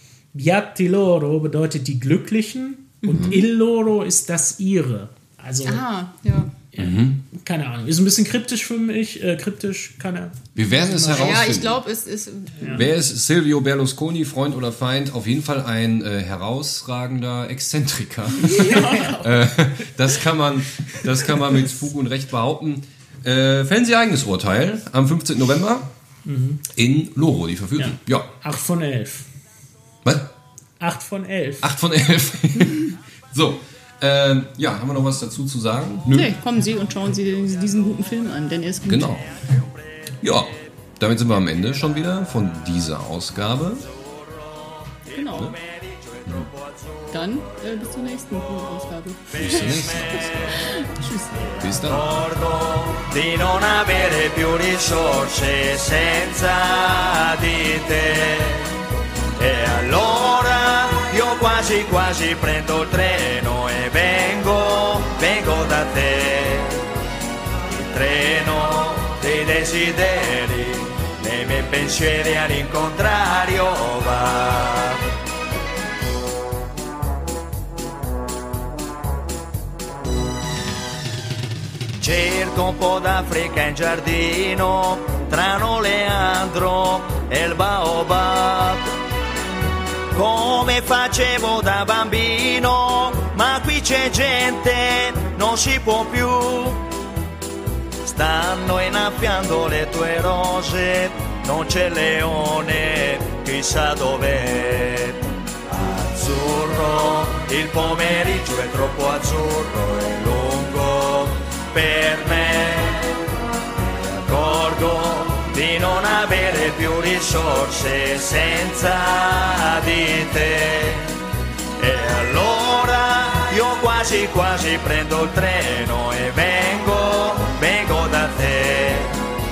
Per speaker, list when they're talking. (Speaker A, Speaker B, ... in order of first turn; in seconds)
Speaker A: 0.3-5.8, 6.7-11.5, 12.6-12.9, 18.5-19.2, 26.3-26.6, 27.8-29.3, 30.8-31.7
Speaker B: 3.0-3.4, 5.7-6.5, 11.1-12.9, 18.4-19.3, 36.1-39.2, 45.1-45.5, 47.1-49.5, 50.5-51.6
Speaker C: 3.1-3.4, 6.8-7.2, 10.6-11.8, 12.7-25.9, 26.7-28.3, 31.6-36.3, 38.9-39.3, 40.2-43.9, 49.4-50.8, 51.6-52.1
Speaker D: 44.0-48.6, 49.3-50.6, 51.8-58.7, 59.4-66.8, 67.7-75.0, 82.0-88.9, 90.1-96.8, 98.0-113.2, 113.8-121.1, 121.8-129.2